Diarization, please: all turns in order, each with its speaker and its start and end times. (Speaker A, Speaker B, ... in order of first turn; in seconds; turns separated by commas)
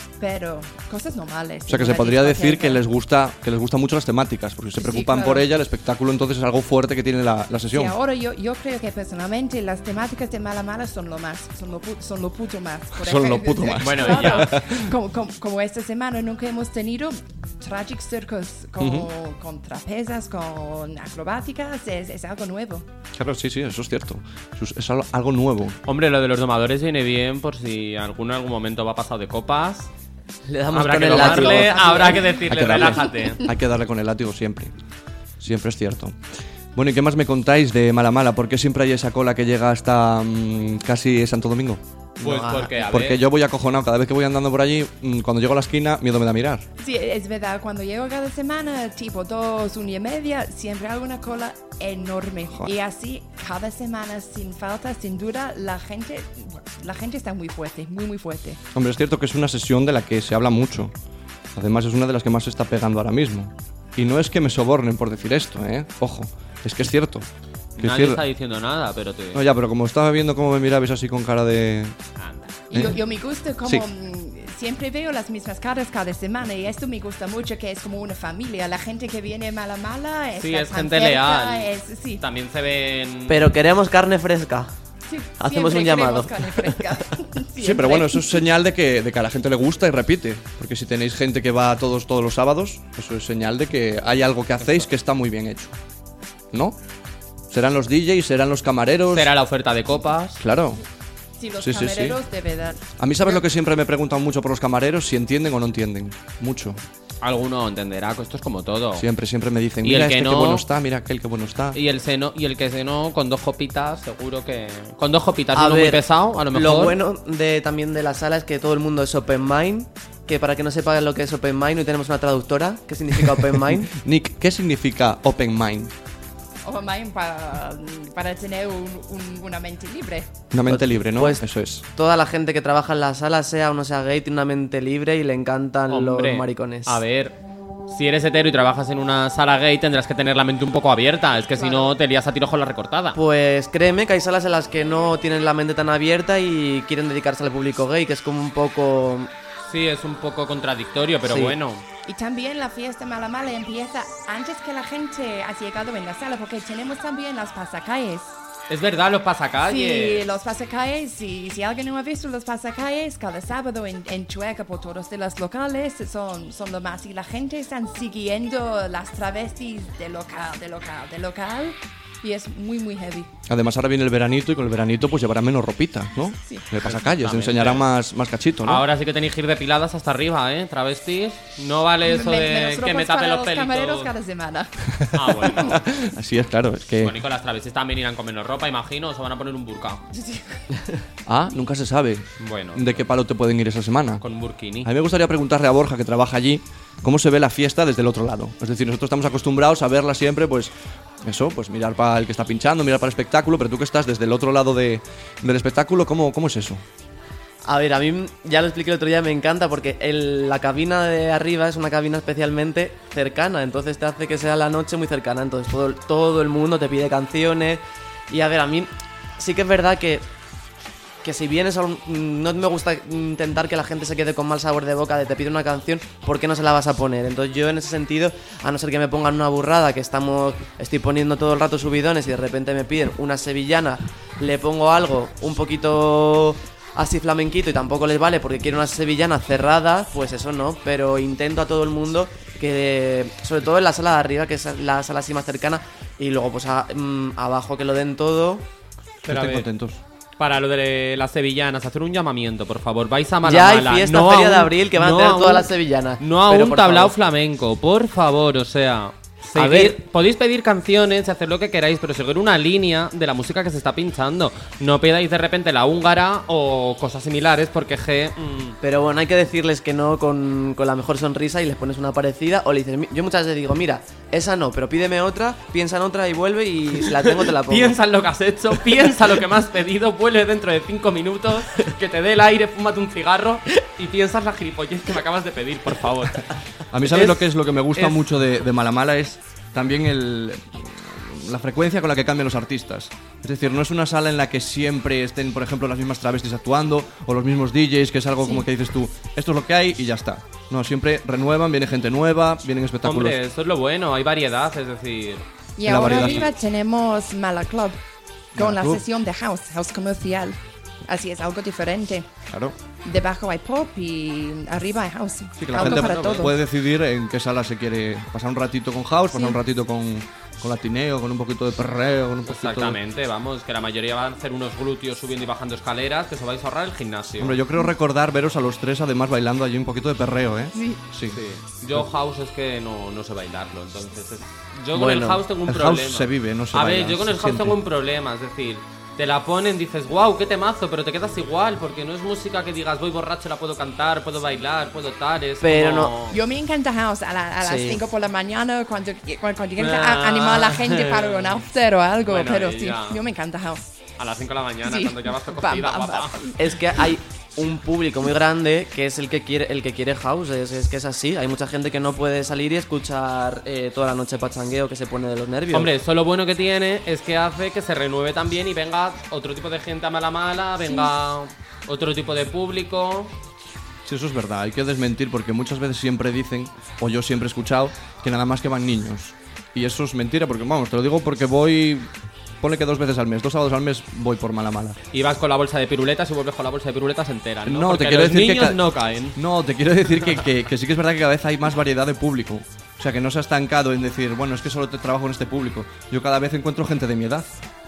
Speaker A: 0.2-2.8, Speaker B: 1.7-8.0, Speaker A: 4.8-5.4, Speaker A: 7.7-22.9, Speaker B: 13.0-14.8, Speaker C: 13.8-14.5, Speaker B: 18.8-19.1, Speaker B: 23.1-25.8, Speaker C: 25.9-29.9, Speaker D: 30.5-32.3, Speaker C: 30.7-33.4, Speaker A: 31.9-32.1, Speaker B: 32.5-34.7, Speaker B: 35.4-36.2, Speaker B: 36.7-41.8, Speaker D: 42.2-42.7, Speaker C: 42.2-43.2, Speaker B: 42.7-46.6, Speaker A: 46.8-58.6, Speaker B: 58.8-60.9, Speaker B: 61.5-67.3, Speaker B: 67.8-68.2, Speaker C: 67.8-69.4, Speaker B: 69.3-72.0, Speaker C: 72.2-72.5, Speaker A: 72.7-82.2, Speaker C: 80.4-83.4, Speaker D: 83.3-84.7, Speaker A: 85.1-88.3, Speaker D: 85.4-87.0, Speaker B: 87.6-95.7, Speaker B: 96.5-96.8, Speaker B: 97.5-99.3, Speaker C: 99.1-100.4, Speaker B: 100.4-100.8, Speaker A: 101.4-103.4, Speaker B: 101.6-102.2, Speaker B: 103.0-106.8, Speaker C: 107.2-109.1, Speaker B: 109.0-111.8, Speaker C: 109.8-110.7, Speaker C: 111.7-117.0, Speaker D: 115.5-123.9, Speaker B: 123.9-125.9, Speaker A: 126.7-130.3, Speaker B: 130.5-131.8, Speaker D: 130.7-137.0, Speaker C: 135.9-137.3, Speaker C: 137.9-143.2, Speaker A: 141.5-141.9, Speaker D: 143.2-149.3, Speaker C: 149.7-151.8, Speaker A: 152.1-158.3, Speaker C: 158.7-160.3, Speaker A: 159.6-173.3, Speaker B: 173.5-178.8, Speaker C: 176.8-177.9, Speaker C: 178.6-184.1, Speaker A: 182.0-184.8, Speaker B: 184.9-187.2, Speaker C: 185.2-185.8, Speaker A: 185.4-185.8, Speaker C: 187.0-190.0, Speaker A: 190.1-190.6, Speaker B: 191.3-194.2, Speaker C: 192.4-193.1, Speaker C: 194.2-194.9, Speaker B: 194.8-200.7, Speaker B: 201.2-206.8, Speaker D: 207.7-220.2, Speaker D: 221.2-248.7, Speaker C: 249.3-249.7, Speaker B: 249.3-250.0, Speaker C: 250.4-268.8, Speaker D: 253.4-257.1, Speaker D: 259.6-260.0, Speaker D: 268.8-278.0, Speaker C: 277.0-286.6, Speaker B: 286.9-303.4, Speaker C: 287.1-287.4, Speaker C: 287.9-288.2, Speaker C: 303.0-305.5, Speaker A: 305.8-308.0, Speaker B: 305.9-306.5, Speaker C: 306.0-306.5, Speaker A: 308.6-312.3, Speaker B: 308.6-309.0, Speaker B: 312.5-312.8, Speaker A: 313.0-316.6, Speaker B: 315.6-323.0, Speaker C: 315.7-316.4, Speaker C: 322.5-327.6, Speaker B: 327.4-331.4, Speaker A: 330.7-331.0, Speaker C: 331.3-346.4, Speaker D: 334.9-335.4, Speaker B: 335.7-337.8, Speaker D: 345.6-346.1, Speaker A: 346.3-353.8, Speaker D: 347.6-348.0, Speaker C: 349.8-351.7, Speaker C: 352.3-353.2, Speaker C: 354.2-356.4, Speaker A: 354.8-357.1, Speaker D: 356.6-365.9, Speaker C: 365.7-373.3, Speaker B: 374.1-382.1, Speaker B: 382.6-385.0, Speaker C: 385.1-389.4, Speaker B: 387.7-397.5